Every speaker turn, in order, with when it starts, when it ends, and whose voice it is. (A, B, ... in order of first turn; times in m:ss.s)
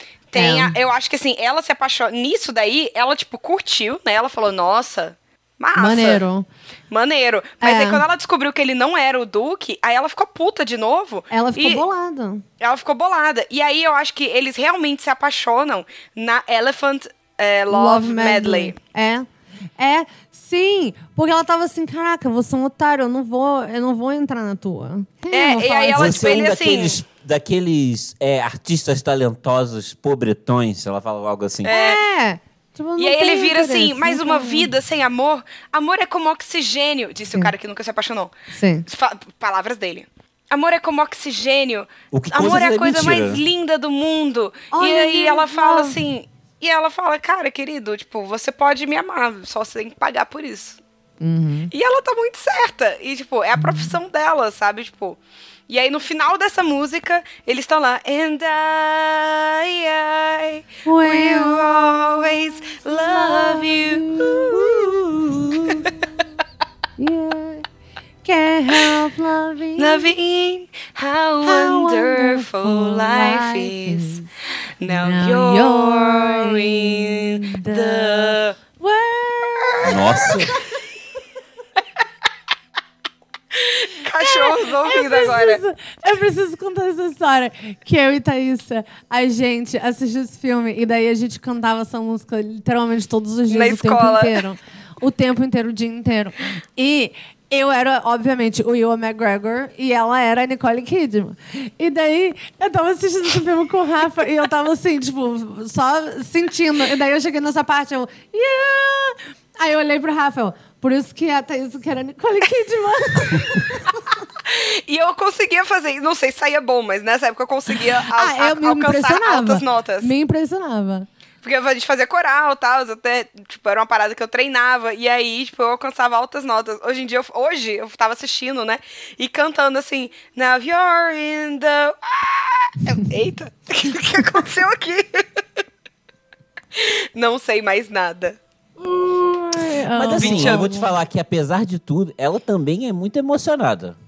0:00.3-0:06.2 A
0:00.3-0:00.8 B
0:05.8-0:06.5 B
0:06.9-0:11.8 A
0:07.6-0:08.0 B
0:11.3-0:12.4 B
0:12.6-0:18.8 A
0:17.7-0:19.3 B
0:19.8-0:26.2 B
0:25.3-0:27.0 A
0:25.9-0:31.7 C
0:31.6-0:32.0 A
0:31.7-0:34.7 B
0:33.0-0:38.3 A
0:38.5-0:38.8 B
0:38.9-0:50.8 A
0:42.1-0:43.4 C
0:44.7-0:46.0 B
0:51.2-0:51.7 B
0:51.7-1:05.9 A
1:00.8-1:06.2 B
1:07.0-1:07.6 B
1:08.2-1:10.1 B
1:09.8-1:14.2 A
1:11.4-1:14.3 B
1:14.8-1:18.6 A
1:14.8-1:20.6 B
1:19.8-1:20.4 A
1:19.8-1:20.5 C
1:23.5-1:25.6 A
1:24.2-1:54.0 B
1:33.5-1:34.4 A
1:54.4-2:00.1 A
1:58.1-2:01.1 B
2:01.4-2:15.4 A
2:16.8-2:18.4 A
2:18.8-2:20.9 B
2:19.9-2:24.0 C
2:20.2-2:20.7 A